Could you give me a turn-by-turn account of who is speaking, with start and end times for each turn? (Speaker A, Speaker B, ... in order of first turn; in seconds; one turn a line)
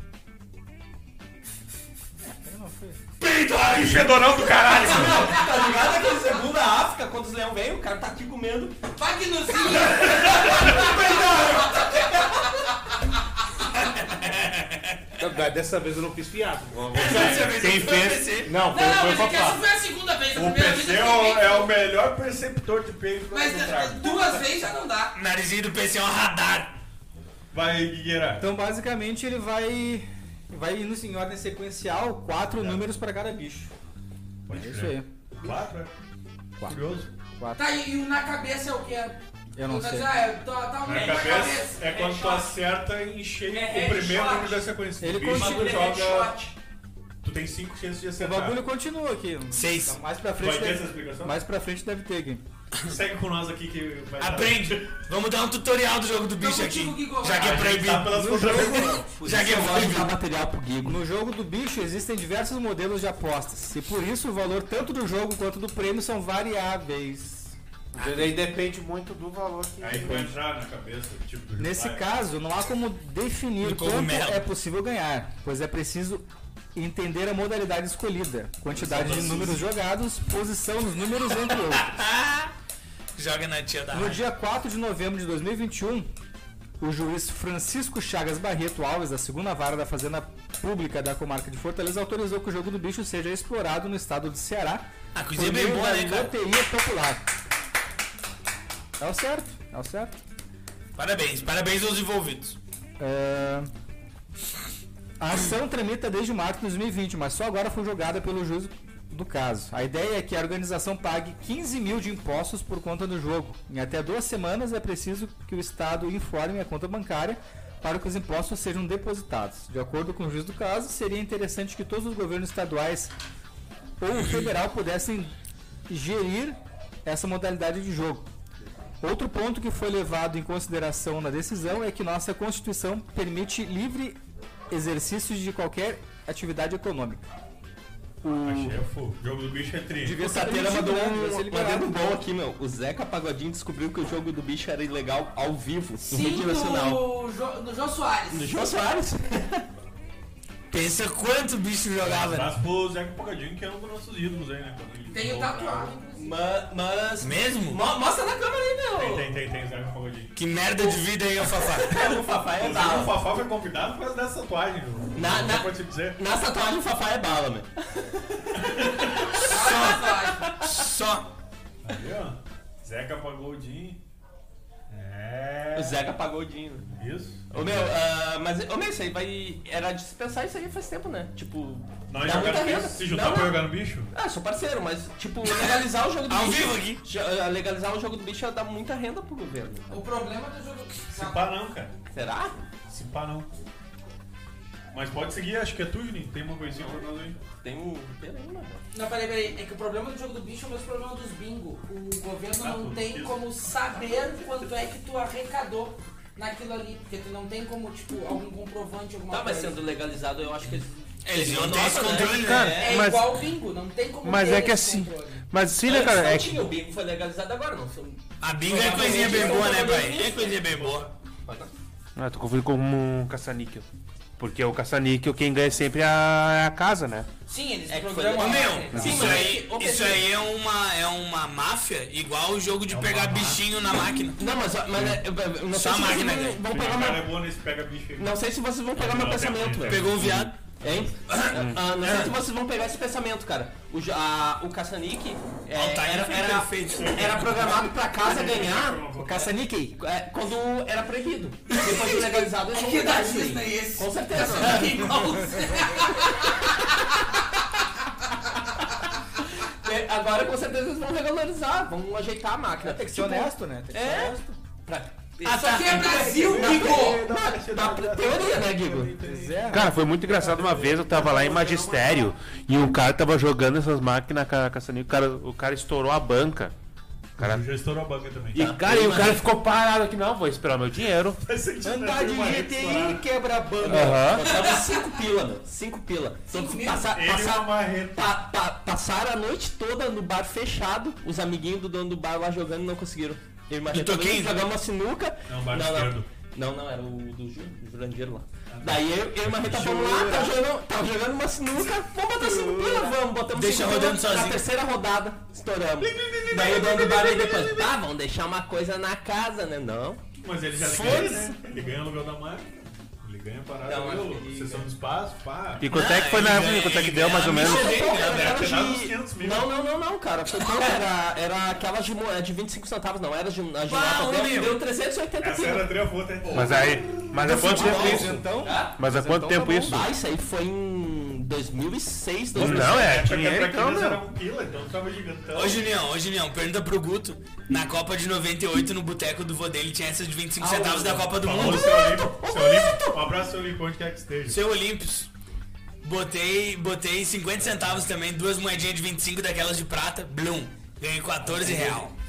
Speaker A: 2.4-3.0
Speaker B: 3.2-4.4
Speaker C: 3.7-5.4
Speaker D: 4.8-8.8
Speaker E: 9.0-13.0
Speaker D: 10.6-12.4
Speaker B: 13.7-15.0
Speaker F: 15.2-19.6
Speaker B: 16.9-18.6
Speaker C: 17.0-17.5
Speaker E: 18.7-21.7
Speaker C: 20.3-24.3
Speaker E: 23.3-25.2
Speaker B: 25.1-26.8
Speaker C: 27.5-28.4
Speaker A: 28.4-33.7
Speaker C: 32.6-32.8
Speaker C: 34.5-35.9
Speaker A: 34.5-35.5
Speaker C: 36.6-37.1
Speaker A: 37.4-37.6
Speaker E: 37.6-42.5
Speaker A: 39.6-40.1
Speaker C: 40.8-46.4
Speaker D: 40.9-42.3
Speaker E: 43.5-44.6
Speaker A: 45.0-45.8
Speaker D: 45.3-46.5
Speaker C: 47.2-48.6
Speaker A: 48.2-52.4
Speaker B: 49.5-50.0
Speaker C: 50.4-51.4
Speaker C: 52.8-54.9
Speaker B: 54.2-60.2
Speaker E: 56.4-57.7
Speaker C: 57.4-59.1
Speaker A: 58.1-59.0
Speaker D: 59.1-61.0
Speaker A: 60.8-67.6
Speaker F: 67.9-70.3
Speaker C: 69.8-72.0
Speaker A: 71.6-82.0
Speaker B: 73.6-74.5
Speaker C: 78.7-79.7
Speaker B: 81.7-82.5
Speaker B: 83.2-84.2
Speaker A: 83.9-86.1
Speaker A: 86.8-97.2
Speaker B: 95.2-96.3
Speaker A: 99.0-100.2
Speaker B: 101.0-102.6
Speaker A: 103.0-103.7
Speaker A: 105.2-123.1
Speaker A: 124.0-125.3
Speaker B: 124.2-124.5
Speaker A: 125.9-128.3
Speaker A: 129.0-134.2
Speaker A: 134.7-137.2
Speaker D: 138.2-138.8
Speaker C: 138.4-140.2
Speaker A: 140.0-141.9
Speaker D: 140.2-147.0
Speaker E: 146.1-148.5
Speaker D: 148.3-149.7
Speaker B: 150.7-152.5
Speaker C: 152.0-156.0
Speaker E: 155.1-156.4
Speaker D: 156.1-159.4
Speaker B: 157.2-157.8
Speaker C: 158.9-160.3
Speaker B: 160.4-162.0
Speaker D: 161.6-163.1
Speaker C: 162.0-166.2
Speaker D: 165.2-168.6
Speaker C: 168.6-169.4
Speaker E: 169.4-170.5
Speaker B: 169.4-171.3
Speaker C: 171.8-174.0
Speaker C: 174.9-176.0
Speaker D: 175.8-176.9
Speaker C: 177.0-178.0
Speaker D: 177.5-183.6
Speaker C: 182.1-184.1
Speaker D: 184.1-190.0
Speaker B: 185.4-187.0
Speaker E: 189.9-191.4
Speaker C: 191.1-191.9
Speaker D: 192.1-192.6
Speaker C: 192.9-193.5
Speaker C: 194.9-197.4
Speaker D: 197.6-198.8
Speaker E: 198.9-209.8
Speaker C: 202.6-203.4
Speaker D: 209.3-213.2
Speaker B: 211.2-212.8
Speaker F: 212.0-213.4
Speaker E: 212.6-215.4
Speaker F: 214.2-216.7
Speaker D: 215.8-220.7
Speaker B: 218.4-221.1
Speaker C: 219.0-221.1
Speaker F: 222.2-223.9
Speaker F: 224.4-227.3
Speaker E: 227.5-229.4
Speaker D: 227.9-230.3
Speaker B: 228.4-234.4
Speaker F: 228.9-229.2
Speaker C: 232.9-233.6
Speaker D: 234.4-237.3
Speaker B: 235.7-236.6
Speaker C: 236.6-240.2
Speaker D: 238.2-249.1
Speaker B: 239.9-240.6
Speaker F: 240.2-240.5
Speaker B: 241.2-242.3
Speaker F: 241.5-241.8
Speaker B: 245.7-247.5
Speaker C: 247.0-249.5
Speaker A: 249.2-250.0
Speaker D: 250.0-255.2
Speaker E: 251.7-258.4
Speaker D: 259.8-269.1
Speaker A: 262.8-264.6
Speaker E: 265.5-267.2
Speaker C: 266.2-272.4
Speaker A: 269.2-270.1
Speaker F: 269.7-276.7
Speaker F: 277.4-277.7
Speaker C: 277.4-278.6
Speaker F: 278.5-281.4
Speaker D: 278.6-279.4
Speaker C: 281.4-283.2
Speaker A: 281.8-284.4
Speaker D: 283.8-310.2
Speaker F: 283.9-284.5
Speaker E: 284.4-285.0
Speaker E: 286.5-287.1
Speaker C: 287.1-288.4
Speaker B: 293.9-294.6
Speaker C: 295.5-296.3
Speaker C: 298.7-300.5
Speaker A: 302.1-303.2
Speaker B: 303.5-304.6
Speaker C: 306.0-307.9
Speaker C: 310.4-315.9
Speaker B: 310.8-311.5
Speaker D: 311.0-311.3
Speaker D: 313.8-314.9
Speaker F: 315.8-317.9
Speaker B: 315.9-318.6
Speaker D: 317.5-325.9
Speaker C: 317.7-319.7
Speaker B: 323.9-324.8
Speaker C: 325.4-328.4
Speaker D: 326.4-329.0
Speaker F: 326.5-328.4
Speaker A: 327.4-330.0
Speaker F: 329.0-330.1
Speaker D: 329.9-333.1
Speaker C: 332.5-335.8
Speaker F: 332.6-334.2
Speaker B: 335.5-342.0
Speaker D: 340.6-343.2
Speaker C: 341.4-344.6
Speaker B: 344.5-345.3
Speaker B: 346.0-352.1
Speaker C: 351.4-351.8
Speaker D: 351.6-352.1